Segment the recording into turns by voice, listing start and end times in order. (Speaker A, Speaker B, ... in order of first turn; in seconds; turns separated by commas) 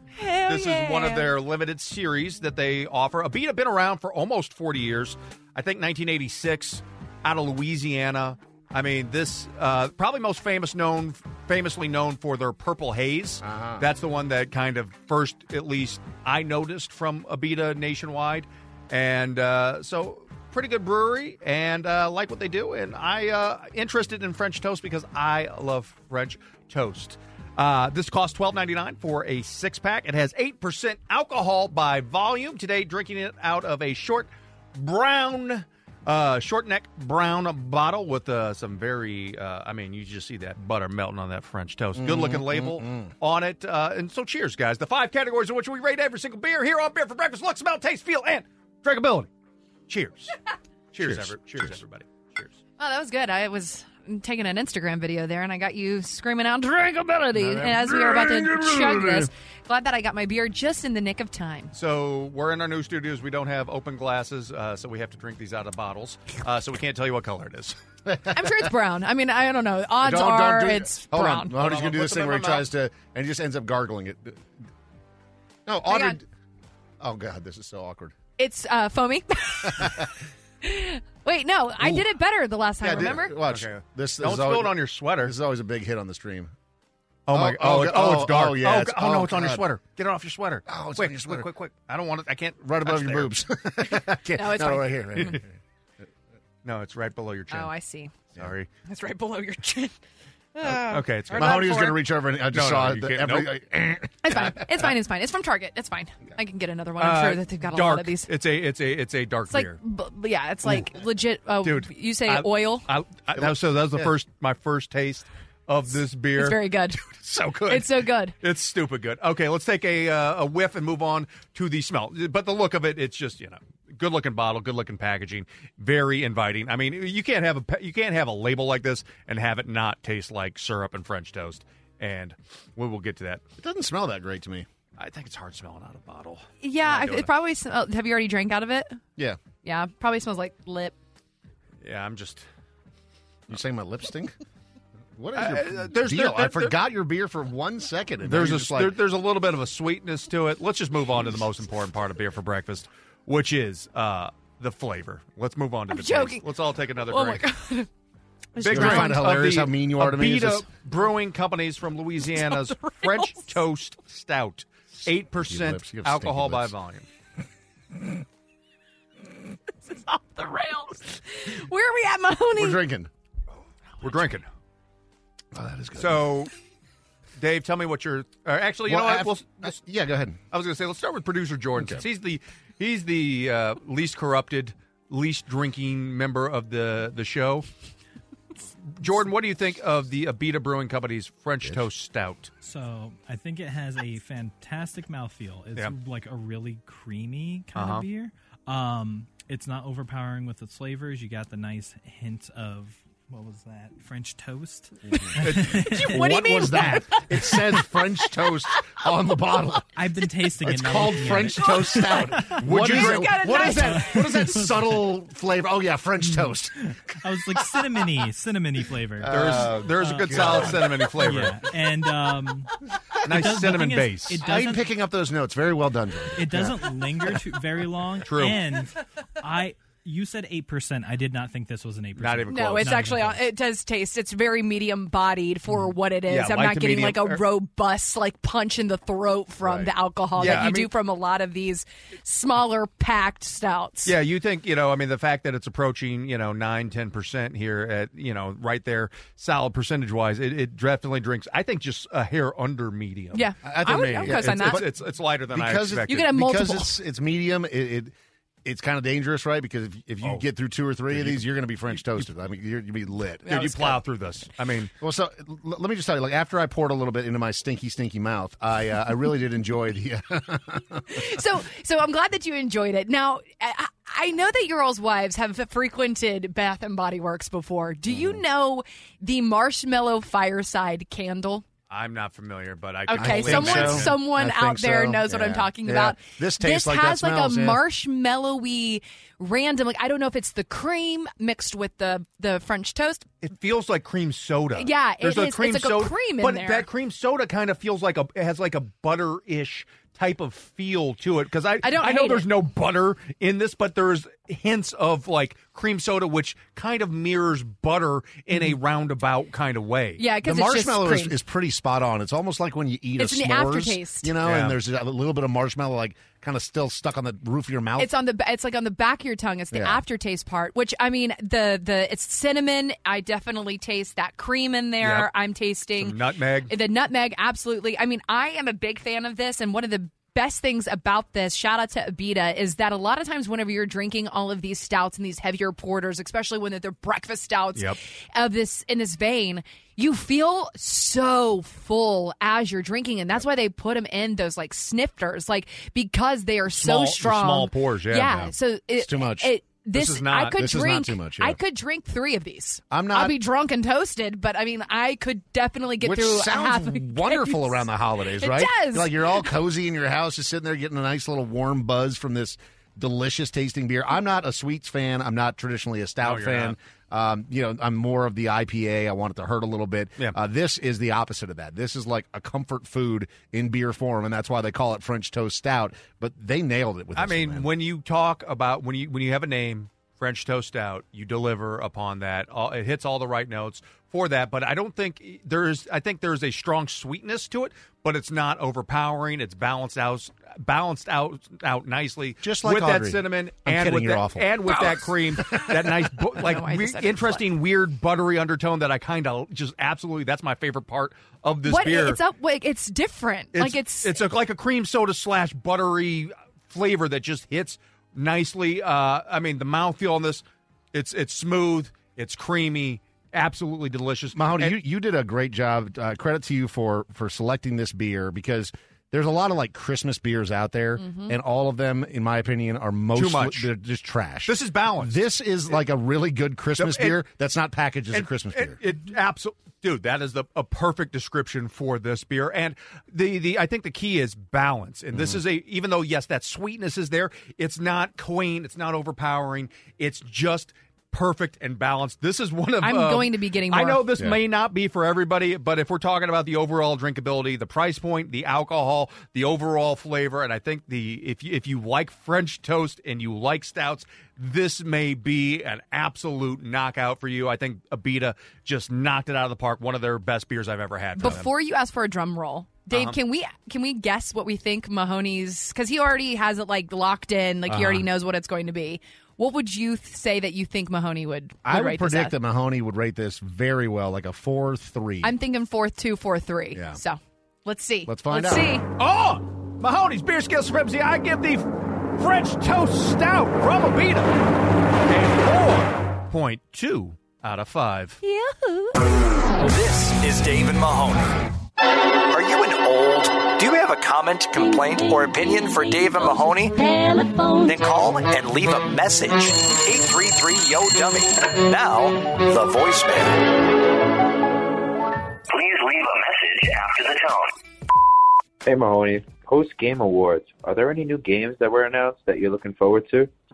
Speaker A: 0.2-1.3, Speaker B: 0.5-49.3, Speaker C: 13.4-13.8, Speaker C: 42.0-43.1, Speaker B: 49.9-50.3, Speaker B: 50.9-52.6, Speaker C: 51.0-51.8, Speaker A: 52.8-61.7, Speaker C: 57.5-59.3, Speaker B: 61.7-67.8, Speaker C: 68.1-68.7, Speaker A: 68.3-71.5, Speaker C: 70.0-74.4, Speaker B: 71.5-72.7, Speaker C: 75.7-76.2, Speaker A: 75.9-76.2, Speaker C: 77.0-78.1, Speaker A: 78.4-80.0, Speaker C: 79.6-80.1, Speaker A: 80.6-83.3, Speaker C: 81.8-82.0, Speaker C: 82.8-86.5, Speaker B: 83.5-85.3, Speaker B: 87.3-93.3, Speaker C: 87.3-89.7, Speaker C: 90.7-91.5, Speaker C: 92.7-95.5, Speaker A: 94.3-95.4, Speaker B: 96.7-97.7, Speaker A: 97.5-98.1, Speaker B: 98.4-98.7, Speaker A: 98.9-100.0, Speaker A: 100.5-102.0, Speaker B: 100.7-101.9, Speaker C: 101.3-104.6, Speaker B: 102.5-103.5, Speaker A: 104.2-108.3, Speaker B: 107.0-109.8, Speaker A: 109.5-112.9, Speaker B: 111.6-133.4, Speaker C: 113.4-114.1, Speaker A: 116.4-117.0, Speaker A: 117.7-118.3, Speaker C: 133.6-134.7, Speaker B: 135.0-137.3, Speaker A: 136.6-139.0, Speaker A: 139.6-140.9, Speaker B: 141.8-142.4, Speaker C: 143.5-144.3, Speaker C: 145.2-148.9, Speaker B: 145.3-146.8, Speaker B: 148.2-157.4, Speaker A: 155.9-156.4, Speaker A: 157.1-157.9, Speaker A: 158.6-159.2, Speaker B: 158.6-167.1, Speaker C: 158.6-160.7, Speaker C: 165.3-166.7, Speaker A: 169.9-172.8, Speaker C: 172.6-173.1, Speaker B: 174.0-174.5, Speaker C: 175.5-176.3, Speaker B: 176.0-176.5, Speaker B: 177.4-179.8, Speaker C: 178.9-180.4, Speaker B: 180.5-187.7, Speaker C: 181.8-182.0, Speaker B: 189.0-192.5, Speaker D: 192.6-207.0, Speaker B: 197.8-198.1, Speaker B: 205.4-205.8, Speaker A: 205.9-207.5, Speaker C: 206.0-209.9, Speaker D: 209.9-215.0, Speaker C: 210.6-216.9, Speaker A: 211.7-212.1, Speaker B: 212.6-213.7, Speaker A: 213.0-214.4, Speaker D: 217.2-222.7, Speaker C: 219.2-220.8, Speaker B: 219.3-221.6, Speaker D: 223.2-224.9, Speaker B: 223.3-224.4, Speaker C: 224.4-226.8, Speaker D: 226.4-233.4, Speaker B: 228.2-228.6, Speaker B: 232.2-232.9, Speaker A: 232.5-244.1, Speaker B: 236.3-237.4, Speaker C: 239.6-239.9, Speaker B: 240.4-240.9, Speaker B: 244.1-253.5, Speaker A: 253.3-254.8, Speaker C: 253.6-258.1, Speaker B: 254.1-256.2, Speaker A: 256.1-256.9, Speaker C: 258.6-264.0, Speaker B: 261.1-261.5, Speaker B: 263.4-264.9, Speaker C: 265.0-271.2, Speaker A: 271.1-281.6, Speaker C: 278.1-278.4, Speaker B: 281.9-284.2, Speaker A: 283.1-293.2, Speaker C: 283.2-287.8, Speaker B: 293.4-310.6, Speaker A: 294.8-296.9, Speaker A: 301.8-302.4, Speaker A: 310.2-311.4, Speaker C: 310.5-318.1, Speaker A: 313.2-314.3, Speaker B: 314.4-314.8, Speaker A: 318.0-326.2, Speaker C: 319.7-320.0, Speaker B: 325.0-325.3, Speaker B: 326.0-326.7, Speaker A: 326.7-357.8, Speaker B: 346.7-348.5, Speaker C: 349.0-349.5, Speaker B: 349.9-350.7, Speaker C: 350.6-351.6, Speaker C: 352.9-353.4, Speaker C: 356.0-377.7, Speaker A: 358.4-359.1, Speaker B: 366.2-366.8, Speaker B: 377.2-402.2, Speaker C: 392.4-394.5, Speaker A: 394.7-395.7, Speaker A: 396.4-397.5, Speaker A: 401.7-404.2, Speaker B: 403.5-414.8, Speaker C: 414.4-428.8, Speaker A: 421.0-421.4, Speaker B: 423.1-423.7, Speaker B: 424.4-425.2, Speaker B: 426.8-427.2, Speaker B: 428.1-461.5, Speaker C: 435.1-435.4, Speaker A: 442.8-444.1, Speaker A: 461.2-472.4, Speaker B: 462.9-463.2, Speaker C: 467.7-468.0, Speaker C: 471.6-475.3, Speaker A: 475.2-478.8, Speaker C: 476.7-477.0, Speaker C: 478.1-478.8, Speaker B: 479.0-484.3, Speaker B: 485.1-488.2, Speaker A: 488.2-488.9, Speaker E: 489.6-491.4, Speaker E: 492.3-503.4, Speaker F: 505.5-507.5, Speaker G: 508.6-513.3